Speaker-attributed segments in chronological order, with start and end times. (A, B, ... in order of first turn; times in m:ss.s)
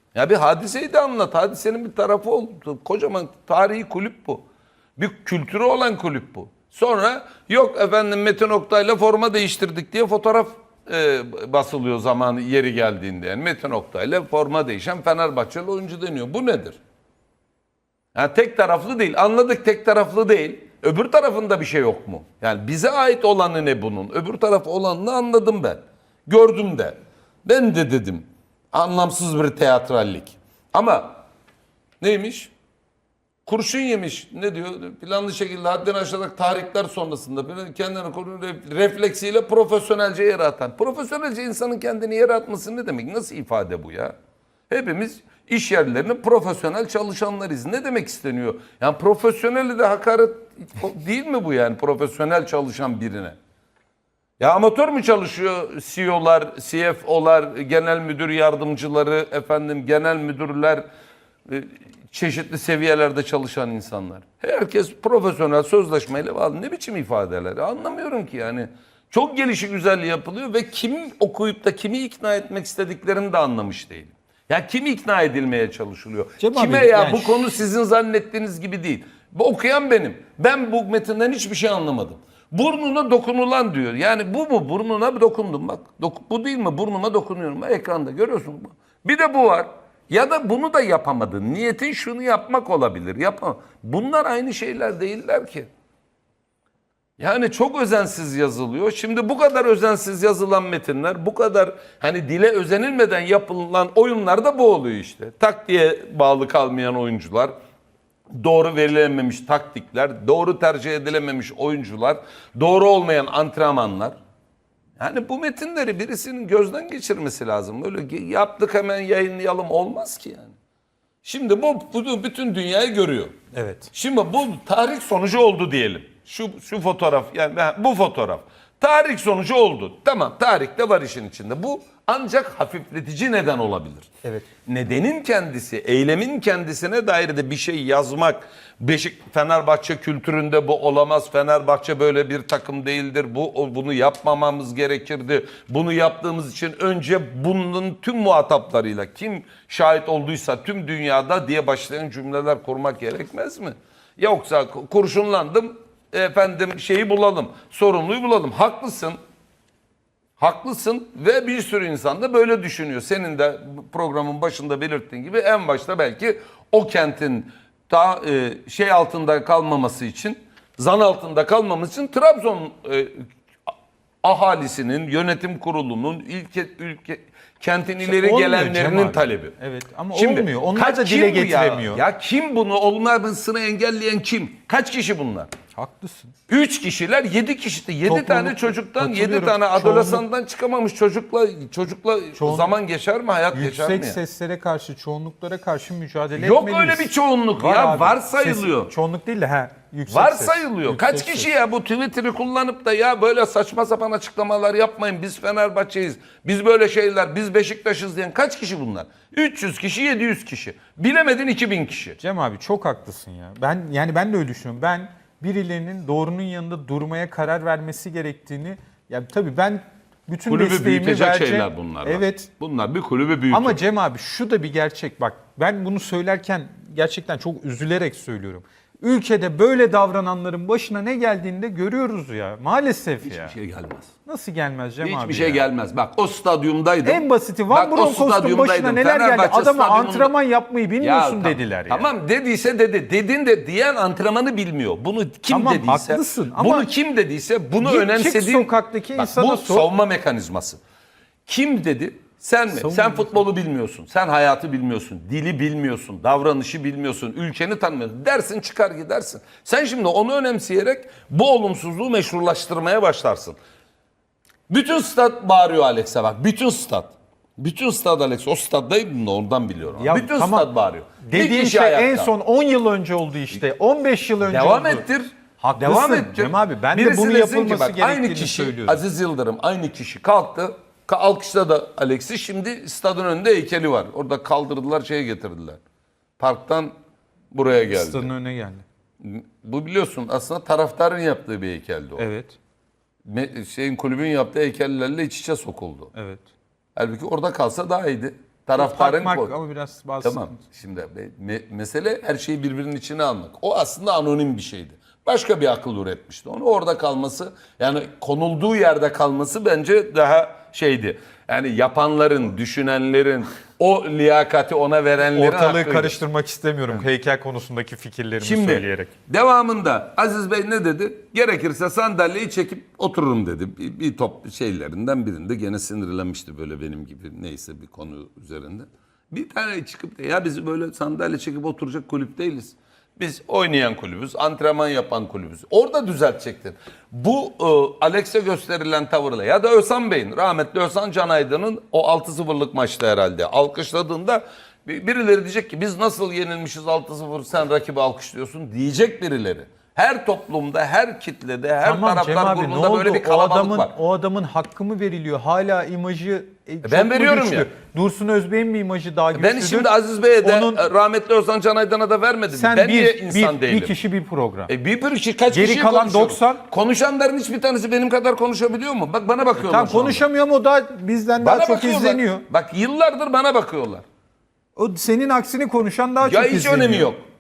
0:00.1-0:04.4 A
0:05.0-0:16.8 A
0:18.2-0:31.2 A
0:32.0-0:32.5 A
0:33.5-0:44.1 A
0:44.7-0:53.4 A
0:54.4-1:00.8 A
1:01.5-1:35.7 A
1:16.4-1:17.4 B
1:37.2-1:47.5 A
1:48.3-1:54.2 A
1:55.0-2:00.6 A
2:01.2-2:03.4 A
2:03.5-2:03.9 B
2:03.9-2:14.1 A
2:14.7-2:39.2 A
2:40.4-2:53.3 A
2:54.2-2:59.5 A
2:58.0-3:02.0 B
3:00.1-3:05.5 A
3:05.8-3:06.3 B
3:06.5-3:14.2 A
3:08.0-3:10.2 B
3:12.4-3:12.8 B
3:13.5-3:21.5 B
3:16.4-3:18.9 A
3:20.1-3:32.2 A
3:32.2-3:42.5 B
3:40.5-3:43.8 A
3:43.5-3:53.6 B
3:53.2-3:54.1 A
3:54.3-3:55.6 B
3:55.0-4:00.3 A
3:57.0-4:02.1 B
4:01.0-4:10.8 A
4:05.5-4:06.9 B
4:07.8-4:09.9 B
4:11.5-4:23.6 A
4:12.7-4:13.4 B
4:24.7-4:32.3 A
4:30.0-4:30.7 B
4:31.2-4:39.0 B
4:34.4-4:45.8 A
4:46.4-4:46.9 A
4:47.5-4:48.3 A
4:47.9-4:48.8 B
4:49.2-4:52.3 A
4:52.2-4:52.6 B
4:53.2-4:56.1 A
4:56.2-4:56.4 B
4:57.0-4:59.5 A
4:58.8-5:00.5 B
5:00.2-5:16.2 A
5:15.3-5:19.1 B
5:18.4-5:53.9 A
5:51.8-5:59.9 B
5:56.8-5:57.7 A
5:59.3-6:03.9 A
6:00.4-6:00.8 B
6:02.5-6:04.7 B
6:04.7-6:10.2 A
6:05.5-6:06.6 B
6:09.6-6:12.4 B
6:11.4-6:14.0 A
6:14.8-6:17.1 B
6:16.2-6:17.2 A